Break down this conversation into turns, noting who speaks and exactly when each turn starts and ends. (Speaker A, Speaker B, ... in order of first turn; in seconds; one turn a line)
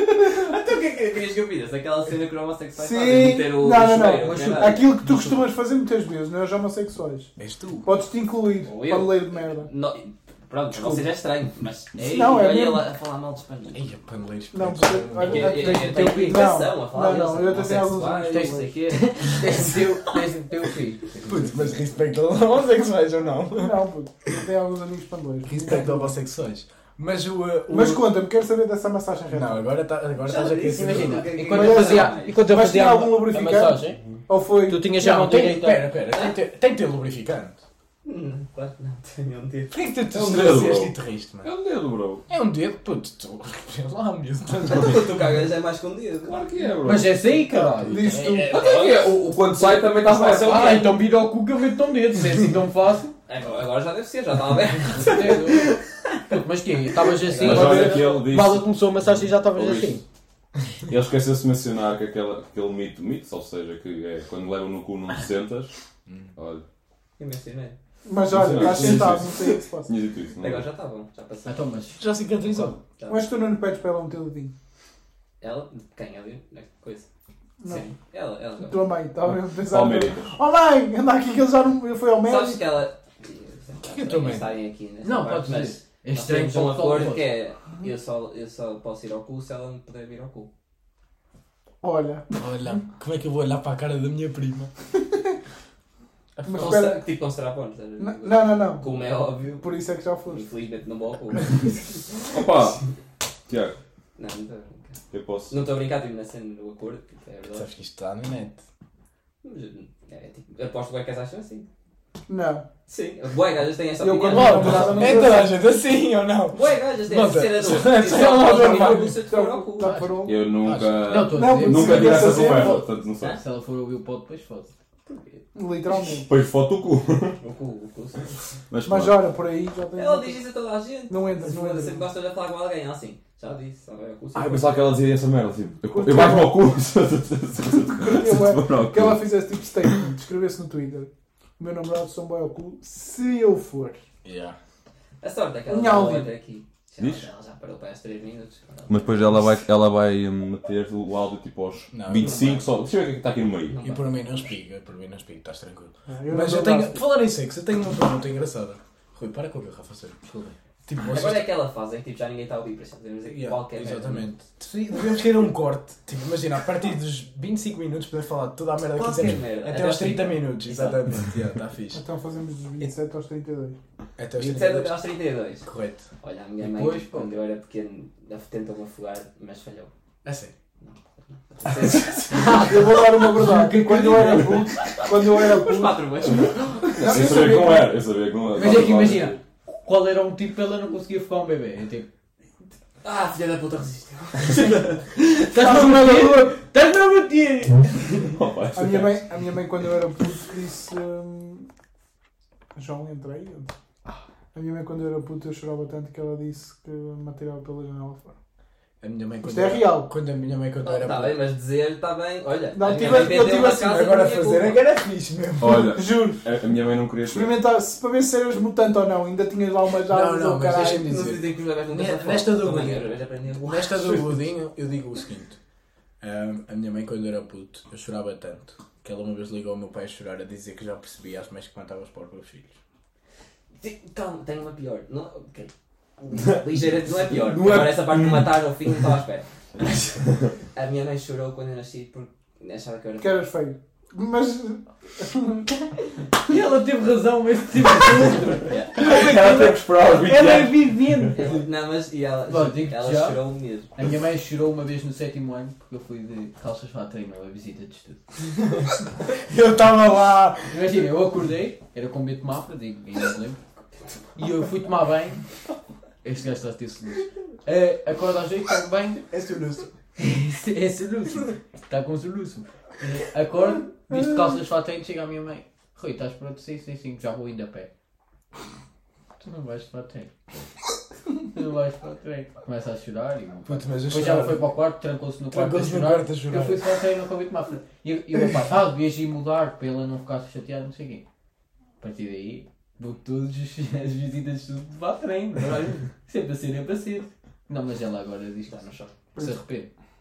Speaker A: 0.3-4.9
Speaker B: 2.8-7.3
Speaker C: 4.2-5.4
Speaker D: 7.4-7.9
Speaker B: 7.8-9.7
Speaker A: 8.6-13.8
Speaker B: 10.7-11.1
Speaker B: 12.0-12.9
Speaker D: 13.7-15.9
Speaker B: 14.5-18.8
Speaker A: 15.2-19.8
Speaker C: 15.9-16.5
Speaker C: 18.3-21.6
Speaker D: 21.2-23.9
Speaker B: 23.6-26.1
Speaker D: 25.4-28.2
Speaker B: 27.7-29.8
Speaker D: 29.3-31.3
Speaker A: 30.2-32.4
Speaker C: 30.7-34.0
Speaker B: 31.4-34.9
Speaker C: 34.6-35.9
Speaker D: 34.9-37.6
Speaker A: 38.0-39.8
Speaker D: 39.7-41.5
Speaker E: 40.1-42.2
Speaker D: 42.3-45.1
Speaker A: 44.6-46.4
Speaker E: 46.3-47.3
Speaker C: 46.8-48.2
Speaker B: 47.8-48.8
Speaker D: 48.0-48.4
Speaker A: 48.5-50.9
Speaker E: 48.5-50.8
Speaker C: 50.3-53.1
Speaker A: 53.3-55.8
Speaker C: 54.9-55.7
Speaker C: 56.3-60.0
Speaker A: 57.2-58.2
Speaker E: 57.4-58.7
Speaker E: 59.5-60.0
Speaker E: 60.9-65.7
Speaker D: 66.1-66.3
Speaker E: 66.4-66.7
Speaker A: 67.2-67.8
Speaker B: 68.0-69.9
Speaker E: 68.3-70.7
Speaker D: 68.6-69.0
Speaker A: 70.4-71.7
Speaker C: 71.5-72.0
Speaker D: 72.0-72.8
Speaker A: 73.0-73.3
Speaker B: 73.1-74.5
Speaker A: 75.4-77.1
Speaker B: 77.6-77.8
Speaker A: 77.7-78.9
Speaker B: 78.6-82.7
Speaker E: 79.3-80.3
Speaker A: 82.2-90.5
Speaker D: 83.8-84.5
Speaker C: 85.0-87.3
Speaker B: 91.8-92.3
Speaker D: 92.3-94.7
Speaker B: 96.4-97.1
Speaker A: 96.5-102.2
Speaker B: 98.0-99.0
Speaker B: 99.6-100.5
Speaker E: 102.3-102.8
Speaker E: 103.5-103.8
Speaker A: 104.2-107.7
Speaker E: 105.1-105.6
Speaker D: 107.5-108.6
Speaker A: 109.4-111.7
Speaker B: 112.3-112.7
Speaker A: 112.9-115.4
Speaker B: 114.0-115.6
Speaker D: 114.3-119.2
Speaker A: 116.5-120.0
Speaker B: 117.9-120.5
Speaker C: 119.8-120.1
Speaker E: 120.2-123.4
Speaker D: 120.6-121.0
Speaker C: 120.9-124.7
Speaker B: 121.3-122.9
Speaker A: 125.1-125.4
Speaker B: 125.5-126.3
Speaker E: 126.2-127.4
Speaker A: 127.4-128.4
Speaker E: 128.7-129.3
Speaker B: 128.8-130.4
Speaker A: 129.9-134.8
Speaker B: 131.1-132.1
Speaker E: 134.3-139.3
Speaker B: 135.9-136.7
Speaker B: 137.9-144.0
Speaker D: 144.2-144.6
Speaker A: 145.2-149.4
Speaker B: 145.7-146.3
Speaker E: 147.0-147.3
Speaker E: 148.9-153.8
Speaker D: 151.9-152.4
Speaker A: 152.2-152.7
Speaker A: 153.7-154.1
Speaker D: 153.8-160.2
Speaker B: 156.1-157.0
Speaker C: 160.2-160.6
Speaker D: 160.9-161.5
Speaker A: 161.0-164.3
Speaker D: 163.3-172.0
Speaker A: 168.9-171.1
Speaker B: 171.9-173.8
Speaker D: 174.2-175.0
Speaker A: 174.4-175.7
Speaker D: 175.6-176.1
Speaker A: 176.2-179.9
Speaker C: 176.6-177.4
Speaker D: 180.2-180.5
Speaker A: 180.8-182.3
Speaker D: 181.8-182.1
Speaker B: 182.3-186.1
Speaker C: 182.3-184.7
Speaker A: 185.3-187.3
Speaker E: 186.9-189.4
Speaker B: 187.0-188.0
Speaker C: 188.5-192.1
Speaker A: 193.0-194.6
Speaker C: 194.5-198.0
Speaker B: 195.5-196.6
Speaker E: 198.2-199.3
Speaker B: 198.7-201.7
Speaker B: 202.8-203.7
Speaker B: 204.5-208.3
Speaker D: 209.0-211.4
Speaker B: 209.4-210.1
Speaker A: 210.8-214.8
Speaker B: 212.7-213.8
Speaker D: 213.0-215.9
Speaker E: 215.6-217.7
Speaker B: 215.9-216.4
Speaker B: 217.3-221.0
Speaker D: 220.1-225.6
Speaker A: 220.9-224.3
Speaker D: 226.2-232.8
Speaker A: 233.8-239.5
Speaker E: 237.3-239.0
Speaker E: 240.2-240.5
Speaker A: 240.7-243.4
Speaker B: 243.2-245.7
Speaker C: 246.5-251.5
Speaker A: 248.7-249.0
Speaker E: 248.9-251.4
Speaker A: 251.4-253.9
Speaker C: 252.5-253.4
Speaker C: 253.9-258.2
Speaker D: 259.4-260.8
Speaker C: 260.7-263.6
Speaker C: 264.4-265.4
Speaker C: 266.2-269.2
Speaker D: 269.3-269.9
Speaker C: 270.2-277.9
Speaker C: 279.4-280.3
Speaker C: 281.5-291.2
Speaker D: 283.6-284.8
Speaker D: 285.5-286.9
Speaker C: 292.0-298.8
Speaker A: 298.7-299.2
Speaker C: 299.4-299.9